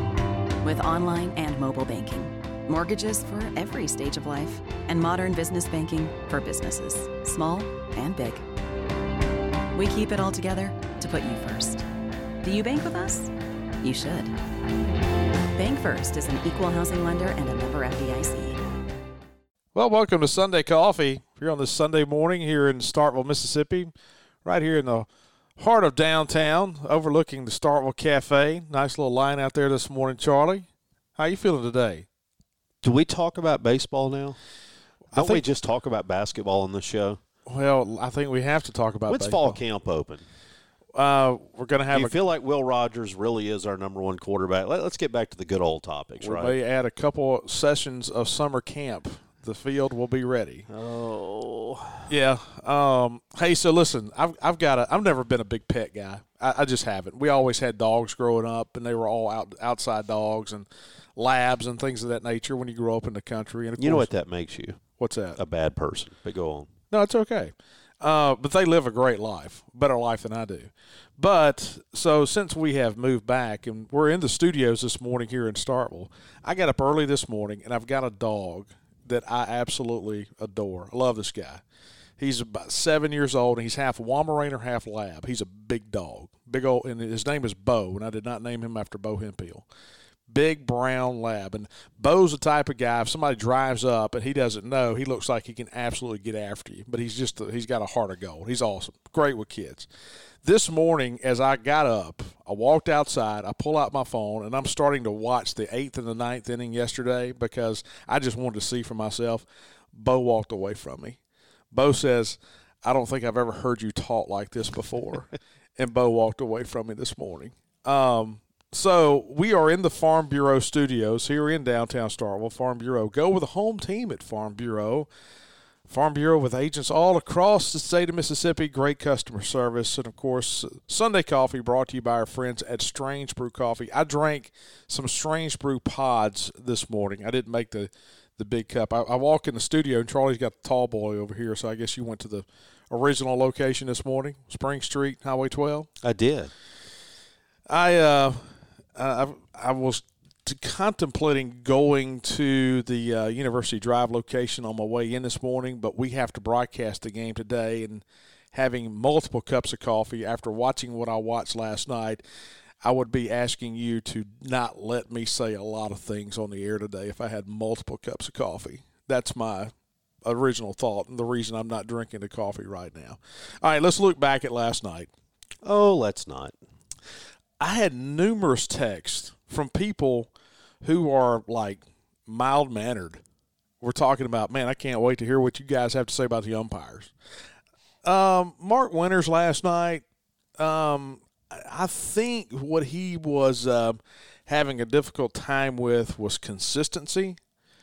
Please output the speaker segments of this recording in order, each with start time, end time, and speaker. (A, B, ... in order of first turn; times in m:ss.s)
0:00.6-0:08.4 A
0:09.7-0:11.8 A
0:12.4-0:14.3 A
0:15.6-0:18.6 A
0:19.7-0:23.9 B
0:24.4-0:32.1 B
0:32.8-0:34.4 C
0:35.1-0:35.4 B
0:35.1-0:37.2 C
0:37.5-0:39.6 B
0:39.1-0:40.2 C
0:41.0-0:42.2 B
0:41.9-0:46.5 C
0:46.2-0:50.7 B
0:50.7-0:52.1 C
0:52.1-1:00.7 B
1:01.2-1:04.1 B
1:03.8-1:04.8 C
1:05.0-1:05.4 B
1:05.4-1:06.7 C
1:06.9-1:21.6 B
1:22.2-1:29.7 B
1:30.3-1:39.9 B
1:40.4-1:51.2 B
1:51.7-2:05.1 B
2:05.9-2:25.9 B
2:26.0-2:26.5 C
2:27.7-2:28.4 B
2:29.0-2:42.2 B
2:42.8-2:49.7 B
2:50.3-2:55.1 B
2:55.6-2:56.5 C
2:57.6-3:00.3 B
3:00.8-3:03.2 B
3:03.8-3:07.1 B
3:08.0-3:10.0 B
3:10.6-3:17.4 B